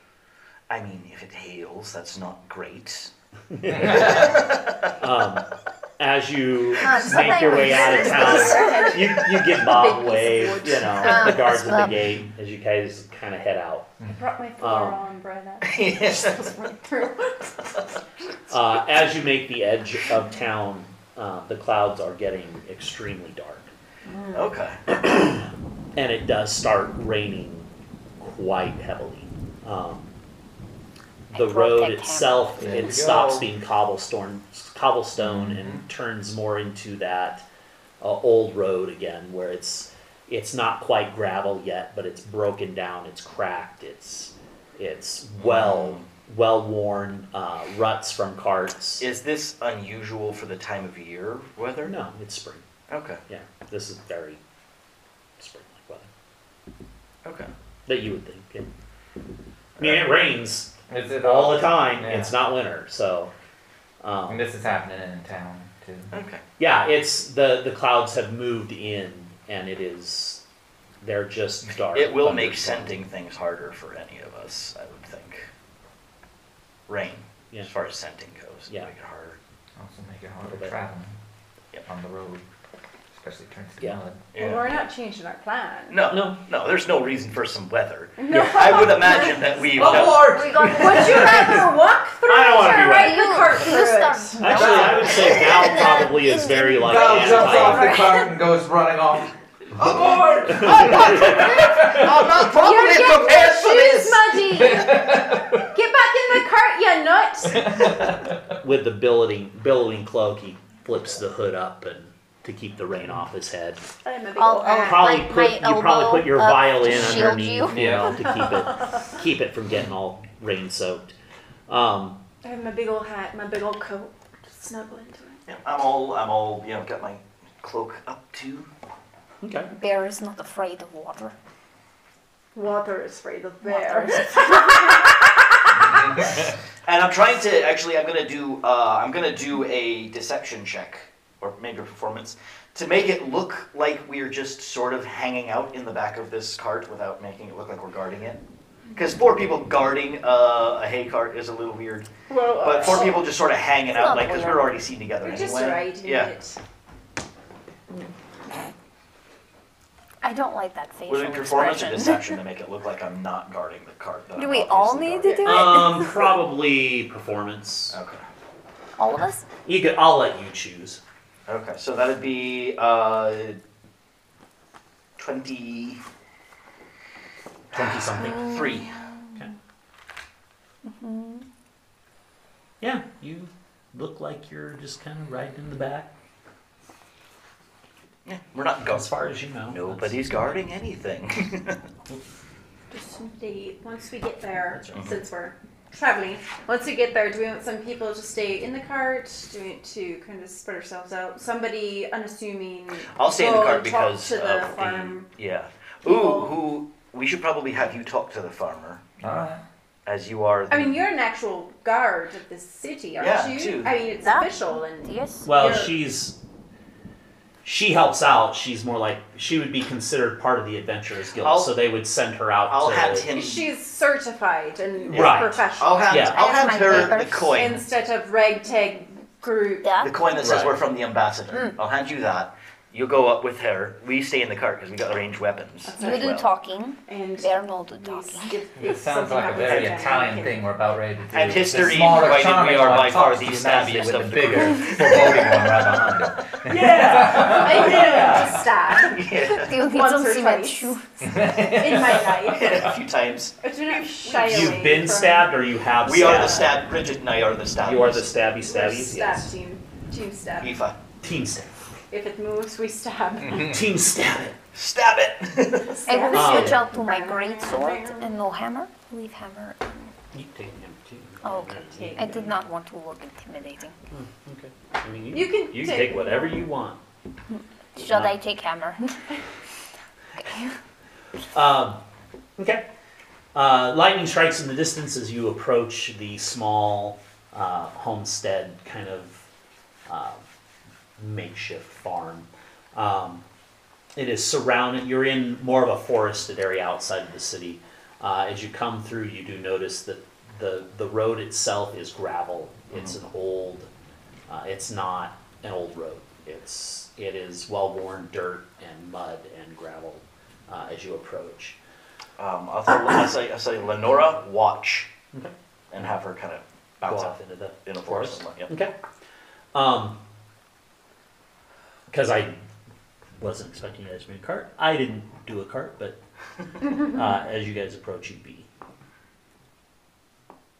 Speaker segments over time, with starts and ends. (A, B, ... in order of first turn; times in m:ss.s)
0:00.7-0:03.1 A
0:03.5-0:04.4 B
0:03.8-0:04.3 C
0:03.8-0:04.9 A
0:05.0-0:05.4 B
0:06.0-0:13.9 B
0:06.8-0:09.0 D
0:06.9-0:11.5 E
0:11.0-0:12.0 D
0:14.1-0:17.7 E
0:14.6-0:15.0 B
0:15.6-0:16.5 A
0:18.5-0:23.7 B
0:24.1-0:24.4 D
0:24.3-0:24.8 A
0:24.9-0:27.7 B
0:28.2-0:30.1 B
0:31.3-0:37.4 B
0:31.3-0:32.5 D
0:32.6-0:33.5 C
0:35.2-0:35.9 C
0:38.0-0:49.1 B
0:45.4-0:46.0 A
0:49.0-0:51.9 A
0:51.8-0:52.6 B
0:52.9-0:53.2 A
0:53.3-0:54.4 B
0:55.4-0:56.1 B
0:57.2-0:57.5 A
0:57.9-0:58.7 B
0:59.8-1:00.1 A
0:59.8-1:03.3 B
1:00.9-1:02.4 C
1:04.0-1:04.5 B
1:04.3-1:06.2 C
1:06.1-1:06.4 A
1:06.6-1:10.4 B
1:11.0-1:13.0 B
1:11.9-1:15.5 A
1:16.9-1:19.4 A
1:19.8-1:21.2 C
1:20.4-1:20.8 B
1:21.8-1:22.4 C
1:23.1-1:24.3 C
1:24.3-1:24.7 A
1:24.4-1:26.0 E
1:25.9-1:30.3 A
1:26.1-1:26.4 B
1:28.2-1:29.7 E
1:28.3-1:29.1 B
1:29.7-1:31.1 C
1:29.8-1:31.7 B
1:30.2-1:31.7 D
1:30.7-1:34.4 E
1:32.3-1:33.3 B
1:32.6-1:38.3 D
1:34.4-1:38.0 B
1:34.4-1:35.1 C
1:36.8-1:42.2 C
1:39.8-1:41.5 B
1:40.5-1:44.4 A
1:42.5-1:47.8 E
1:44.5-1:45.7 C
1:47.5-1:48.6 C
1:48.6-1:53.8 B
1:54.0-1:55.1 E
1:54.4-1:57.8 D
1:54.8-2:01.1 B
1:57.1-1:58.2 C
1:58.2-1:59.0 E
2:01.7-2:02.2 B
2:02.4-2:05.4 E
2:05.5-2:08.7 A
2:09.4-2:09.7 B
2:09.7-2:11.3 D
2:12.5-2:16.1 E
2:13.6-2:14.6 D
2:15.8-2:16.5 C
2:16.8-2:28.4 A
2:28.9-2:32.1 A
2:32.3-2:33.3 E
2:32.6-2:36.3 A
2:33.9-2:34.8 D
2:35.2-2:36.6 E
2:40.2-2:42.3 D
2:41.1-2:45.8 A
2:44.4-2:46.3 D
2:45.4-2:48.0 B
2:47.9-2:48.2 A
2:49.0-2:49.4 D
2:49.6-2:51.0 B
2:51.5-2:53.6 A
2:55.2-2:56.0 A
2:57.7-2:58.6 B
2:57.7-2:59.0 A
2:58.2-2:59.2 D
3:00.8-3:01.4 D
3:02.8-3:06.1 B
3:08.2-3:09.1 A
3:08.8-3:10.3 B
3:09.7-3:11.8 A
3:12.9-3:25.3 E
3:14.7-3:15.1 B
3:14.9-3:15.2 A
3:23.1-3:29.1 A
3:26.0-3:26.5 E
3:29.2-3:29.6 C
3:30.0-3:31.0 A
3:30.7-3:35.9 E
3:33.2-3:34.0 A
3:34.2-3:35.4 D
3:35.4-3:36.4 B
3:37.6-3:43.3 B
3:41.4-3:41.7 A
3:42.7-3:43.7 A
3:43.3-3:46.4 E
3:45.1-3:47.8 A
3:45.1-3:47.1 B
3:46.2-3:47.6 D
3:47.5-3:50.0 E
3:49.8-3:50.3 D
3:50.0-3:56.5 A
3:50.4-3:50.7 B
3:55.8-3:56.4 E
3:56.0-3:58.6 D
3:57.1-4:00.6 E
3:58.8-4:08.3 C
3:59.5-4:00.0 A
4:01.3-4:06.3 A
4:06.6-4:08.6 B
4:07.3-4:12.8 E
4:09.0-4:09.7 A
4:09.3-4:11.1 D
4:11.2-4:12.9 C
4:12.4-4:14.8 A
4:13.6-4:15.6 E
4:14.3-4:16.8 B
4:16.0-4:18.3 A
4:17.8-4:19.5 B
4:18.6-4:20.8 E
4:20.6-4:21.0 A
4:21.2-4:21.8 B
4:22.1-4:23.8 E
4:23.5-4:24.6 B
4:24.7-4:26.0 A
4:25.8-4:28.3 E
4:26.1-4:29.9 D
4:26.3-4:26.8 B
4:30.3-4:32.4 B
4:31.4-4:33.9 D
4:31.9-4:32.5 E
4:34.1-4:37.0 B
4:35.3-4:36.7 E
4:37.5-4:39.1 D
4:38.0-4:38.4 B
4:40.4-4:40.7 D
4:41.5-4:42.0 B
4:42.6-4:42.9 B
4:43.5-4:49.5 B
4:50.1-4:50.4 B
4:51.2-4:53.4 B
4:54.2-5:03.9 B
5:04.5-5:11.8 B
5:12.4-5:15.1 A
5:15.9-5:18.7 A
5:17.0-5:18.9 B
5:19.7-5:20.2 B
5:22.1-5:22.6 B
5:23.4-5:26.2 B
5:26.9-5:28.7 B